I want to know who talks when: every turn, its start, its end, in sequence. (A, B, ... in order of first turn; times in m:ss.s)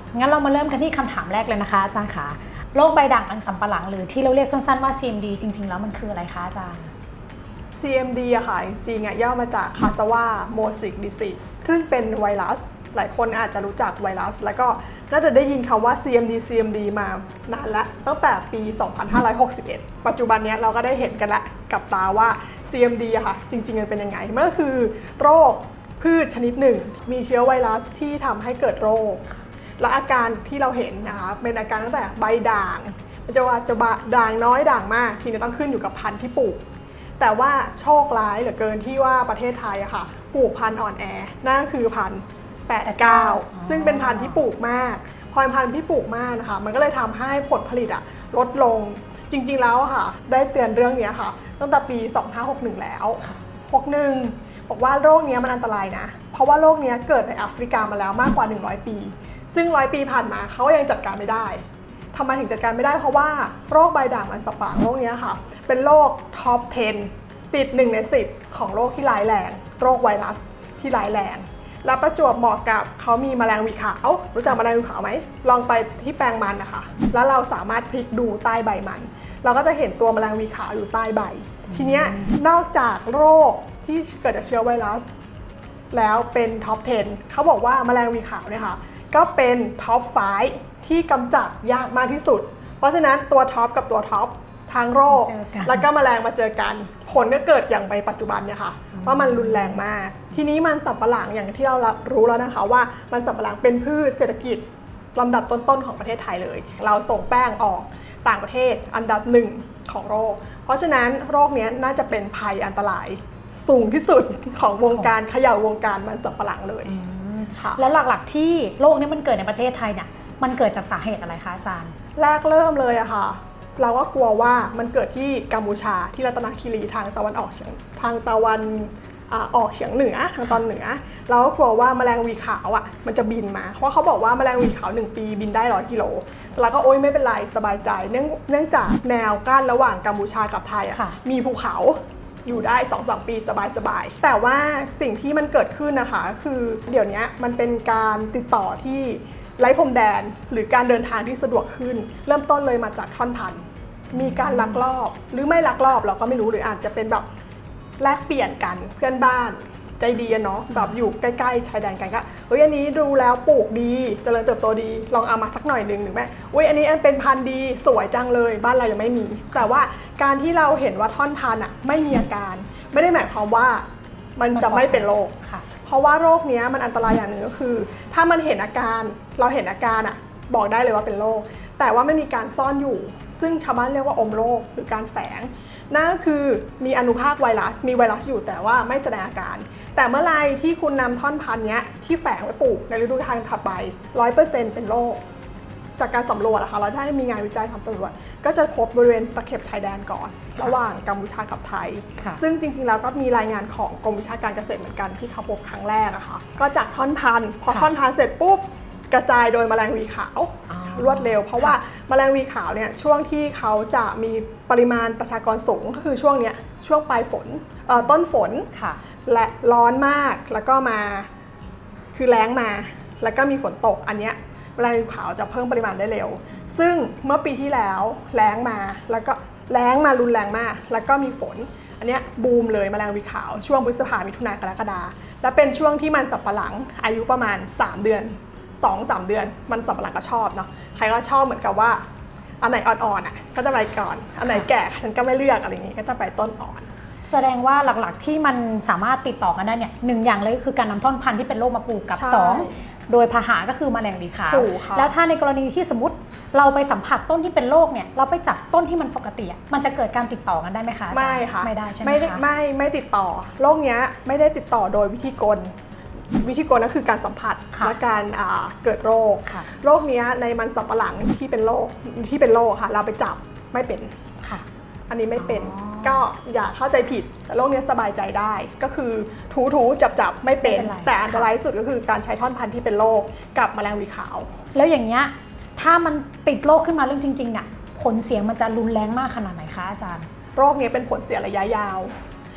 0:00.1-0:06.9 A
0:07.7-0:29.2 B
0:29.8-0:36.6 B
0:37.2-1:25.0 B
0:42.8-0:44.4 A
1:21.7-1:22.4 A
1:25.9-1:44.6 B
1:35.1-1:35.9 A
1:38.9-1:39.8 A
1:45.1-1:57.0 B
1:56.9-2:01.9 A
1:57.6-1:57.8 B
2:02.2-2:37.2 B
2:34.1-2:34.8 A
2:38.0-2:53.8 B
2:54.4-3:15.2 B
2:54.5-2:55.6 A
3:16.0-3:38.7 B
3:30.7-3:31.7 A
3:38.7-3:39.0 A
3:39.2-3:41.3 B
3:42.1-4:02.0 B
4:02.6-4:06.9 B
4:07.2-4:22.4 A
4:12.1-4:12.8 B
4:14.5-4:15.1 B
4:21.1-4:25.7 B
4:26.4-4:34.1 B
4:35.1-4:44.5 B
4:35.4-4:36.2 A
4:40.6-4:41.5 A
4:44.7-4:50.3 A
4:50.5-4:52.1 B